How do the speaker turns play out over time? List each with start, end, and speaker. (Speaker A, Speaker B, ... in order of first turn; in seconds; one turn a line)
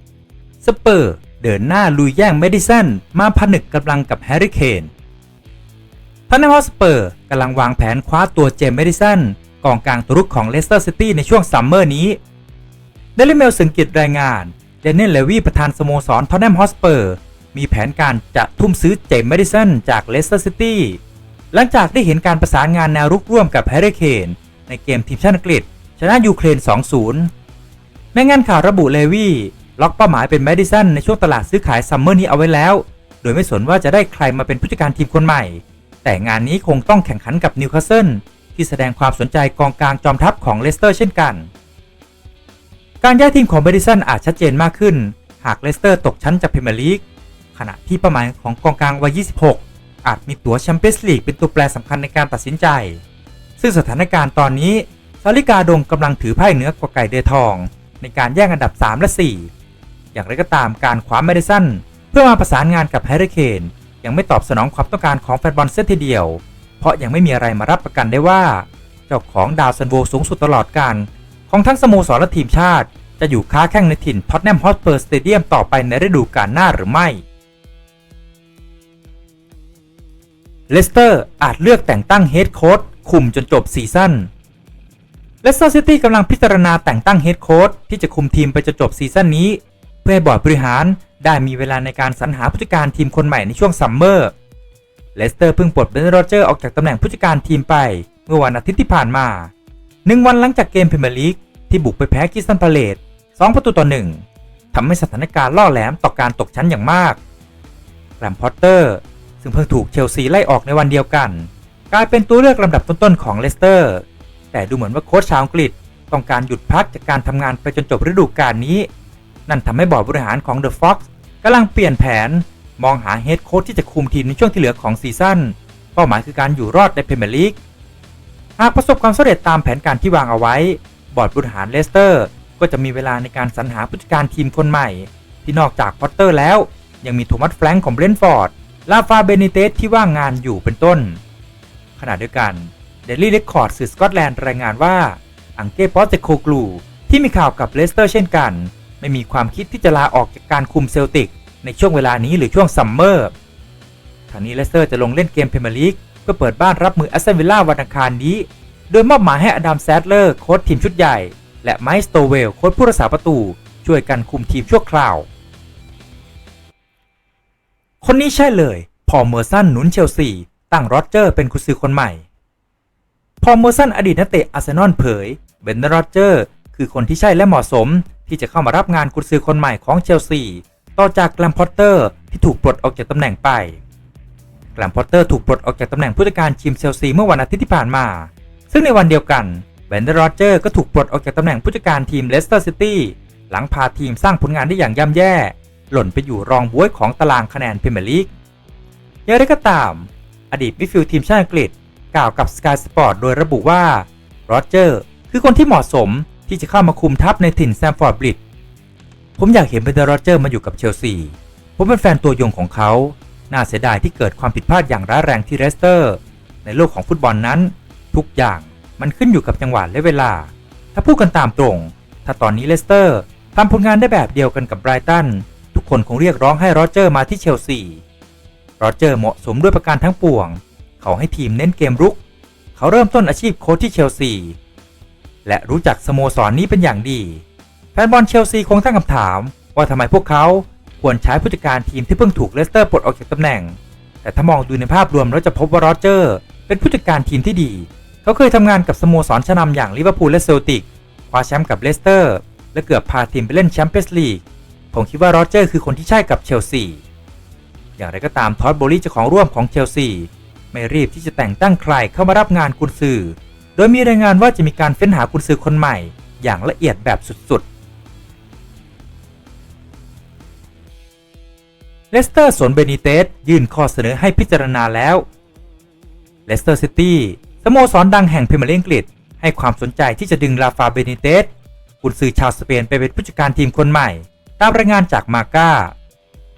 Speaker A: 0.6-4.9
Speaker A: 6.3-12.2
Speaker A: 13.2-21.0
Speaker A: 21.5-27.3
Speaker A: 28.1-41.5
Speaker A: 43.0-53.0
Speaker A: 53.6-59.5
Speaker A: 60.1-77.2
Speaker A: 80.7-84.3
Speaker A: 85.4-94.3
Speaker A: 95.1-99.5
Speaker A: 100.0-107.2
Speaker A: 108.2-118.9
Speaker A: 119.5-127.6
Speaker A: 128.6-141.2
Speaker A: 142.0-153.3
Speaker A: 154.3-165.3
Speaker A: 168.0-172.2
Speaker A: 173.4-183.8
Speaker A: 184.7-198.3
Speaker A: 199.2-208.4
Speaker A: 209.4-228.0
Speaker A: 228.8-232.2
Speaker A: 232.7-234.6
Speaker A: 235.4-237.4
Speaker A: 237.9-257.0
Speaker A: 258.0-267.6
Speaker A: 272.1-275.2
Speaker A: 276.5-285.9